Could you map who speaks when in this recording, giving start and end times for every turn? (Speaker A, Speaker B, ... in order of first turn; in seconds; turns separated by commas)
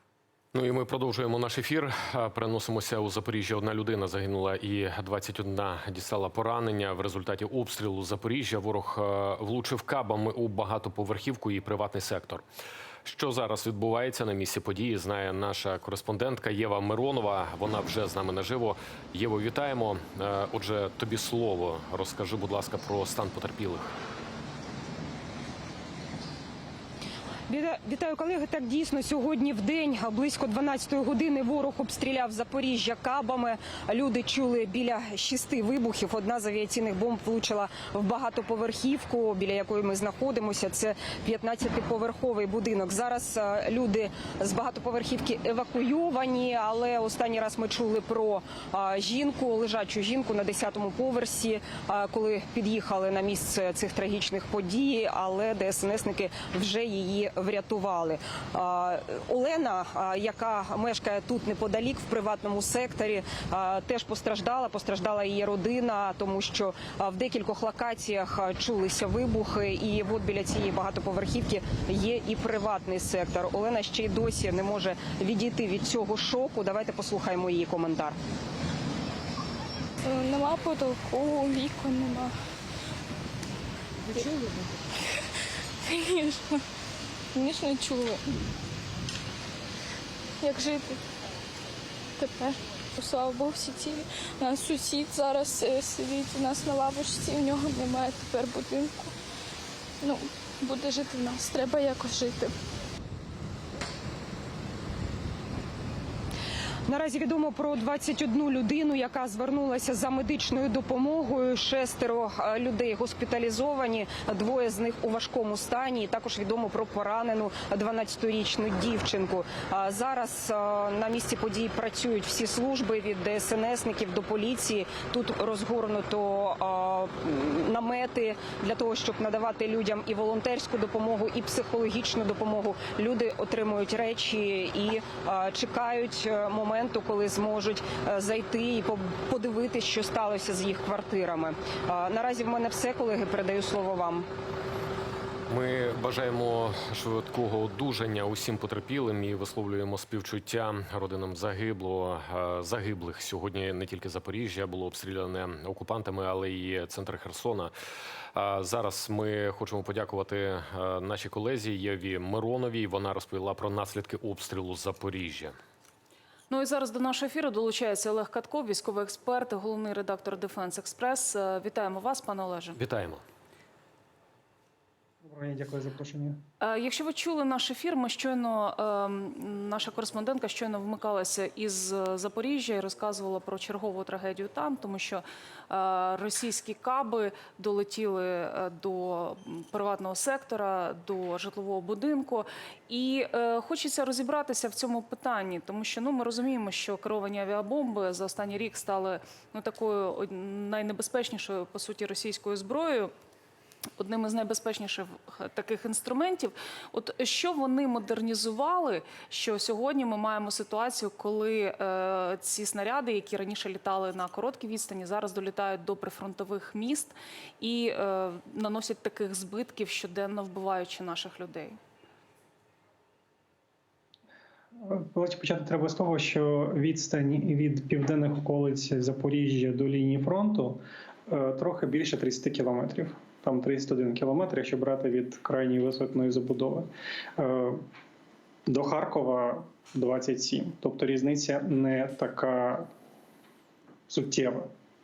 Speaker A: 0.5-12.4, Speaker A: 13.0-23.9, Speaker B: 27.5-78.2, Speaker C: 80.1-82.3, Speaker C: 85.9-86.6, Speaker C: 87.3-88.2, Speaker C: 90.4-91.0, Speaker C: 92.2-99.1, Speaker C: 100.0-102.5, Speaker B: 106.9-144.2, Speaker A: 145.5-157.7, Speaker A: 158.3-165.5, Speaker D: 166.5-172.8, Speaker A: 172.8-173.2, Speaker E: 175.2-176.4, Speaker D: 176.6-203.1, Speaker D: 204.0-221.8, Speaker E: 224.8-236.8, Speaker E: 237.4-237.8, Speaker E: 238.7-242.8, Speaker E: 244.1-244.7